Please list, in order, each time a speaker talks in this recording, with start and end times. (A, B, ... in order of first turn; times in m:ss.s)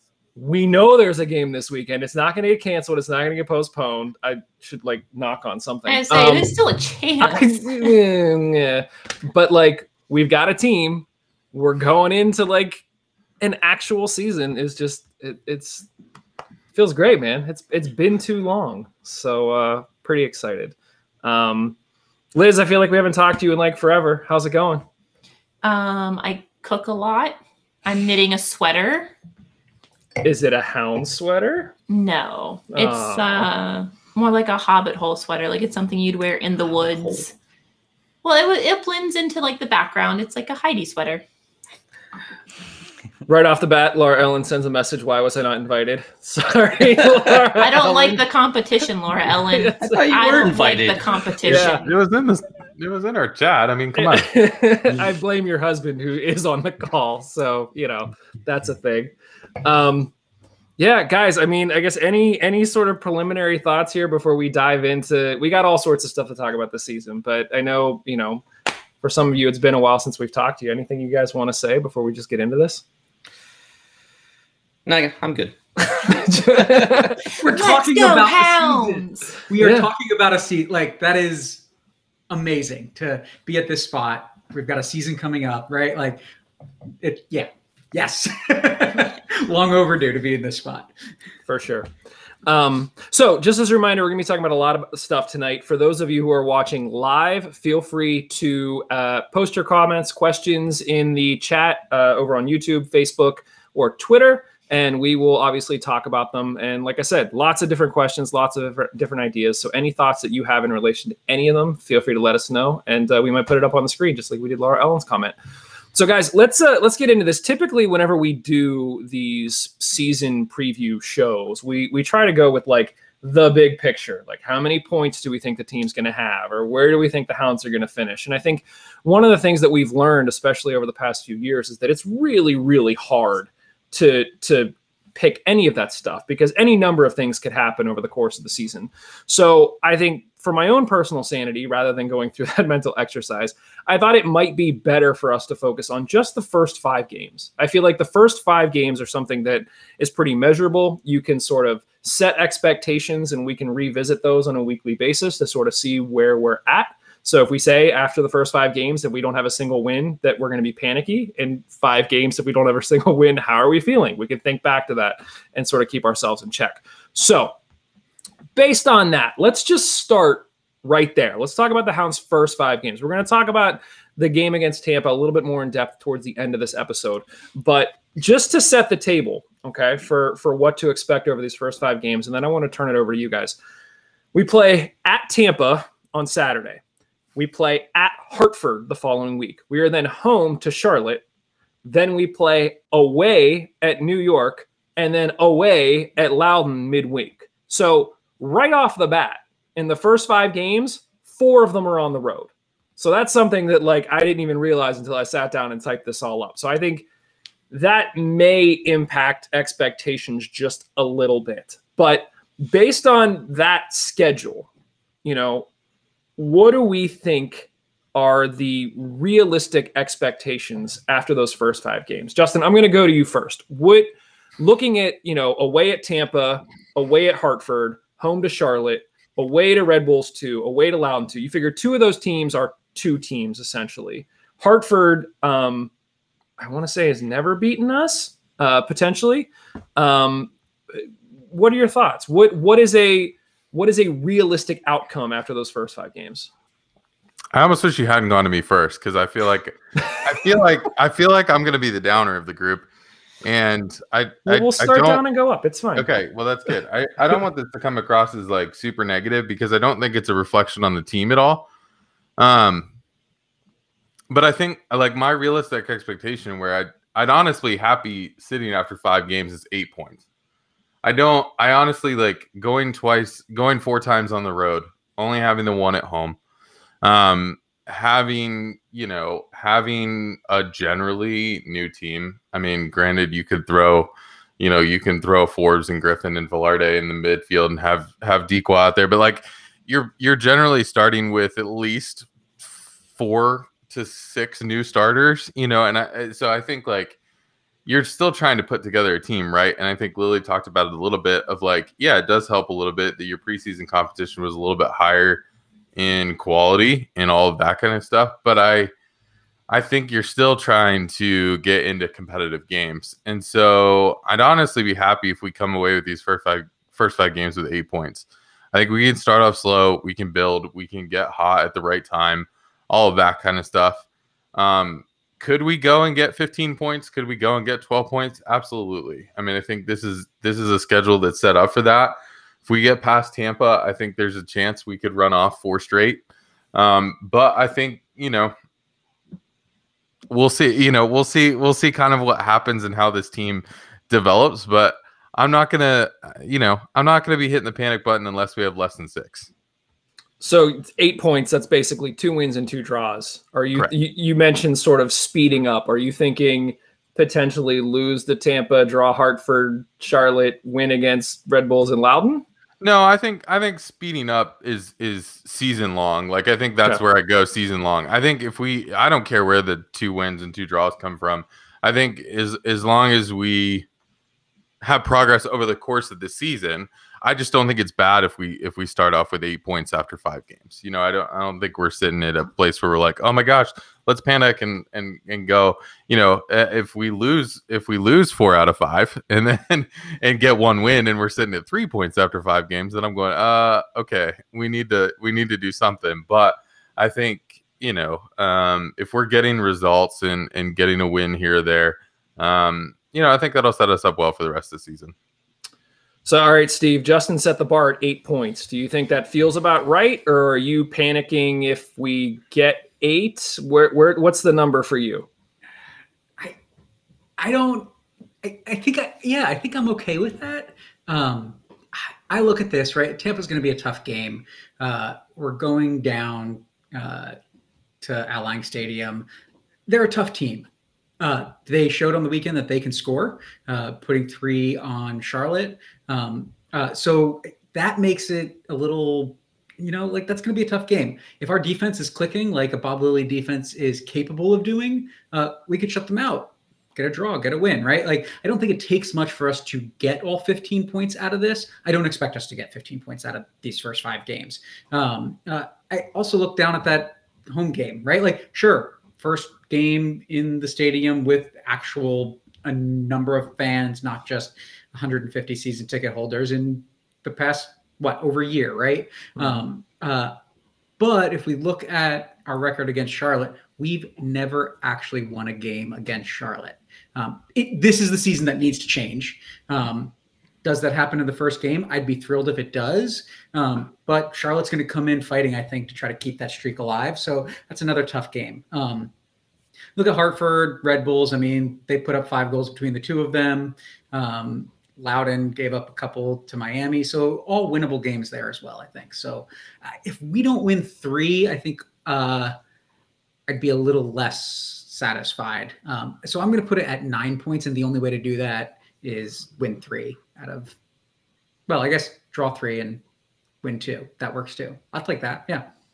0:00.4-0:06.5 A
0:05.9-0:07.8 B
0:07.2-0:12.8 A
0:13.4-0:15.9 A
0:16.7-0:21.8 A
0:22.3-0:24.8 A
0:25.6-0:29.1 B
0:30.2-0:31.7 A
0:31.9-0:37.3 B
0:32.7-0:33.5 A
0:38.2-0:41.2 B
0:43.3-0:48.2 A
0:47.6-0:51.9 B
0:49.5-0:50.1 A
0:49.8-0:51.7 C
0:51.5-0:51.8 A
0:51.8-0:54.4 D
0:54.0-1:00.1 A
1:00.8-1:08.4 A
1:09.0-1:12.8 A
1:14.9-1:17.1 C
1:16.0-1:17.2 A
1:17.4-1:19.4 B
1:17.4-1:21.6 E
1:19.6-1:19.9 A
1:22.3-1:26.2 E
1:27.0-1:30.9 E
1:31.5-1:31.9 A
1:32.4-1:55.3 A
1:55.9-2:47.6 A
2:48.6-3:03.6 A
3:04.3-3:06.8 A
3:07.4-3:11.2 A
3:11.8-3:27.0 A
3:27.7-3:34.7 A
3:35.2-3:35.7 A
3:36.4-3:55.9 A
3:56.6-4:06.5 A
4:07.5-4:12.9 D
4:13.4-4:15.2 D
4:14.5-4:16.1 A
4:16.0-4:21.7 D
4:22.4-4:22.9 D
4:24.3-4:30.2 D
4:31.0-4:36.4 D
4:37.0-4:57.2 D
4:57.9-5:05.4 D
5:06.0-5:08.9 D
5:09.7-5:38.5 D
5:40.3-5:49.5 D
5:50.4-6:02.4 A
6:02.8-6:13.9 D
6:14.8-6:45.1 D
6:46.2-6:55.3 A
6:57.4-6:57.9 E
6:58.4-7:07.4 E
7:08.0-7:09.3 E
7:09.9-7:10.7 E
7:11.2-7:50.4 E
7:51.0-8:00.1 E
8:00.6-8:09.1 E
8:10.0-8:22.6 E
8:23.5-8:30.8 E
8:31.7-8:33.0 E
8:33.6-8:35.7 E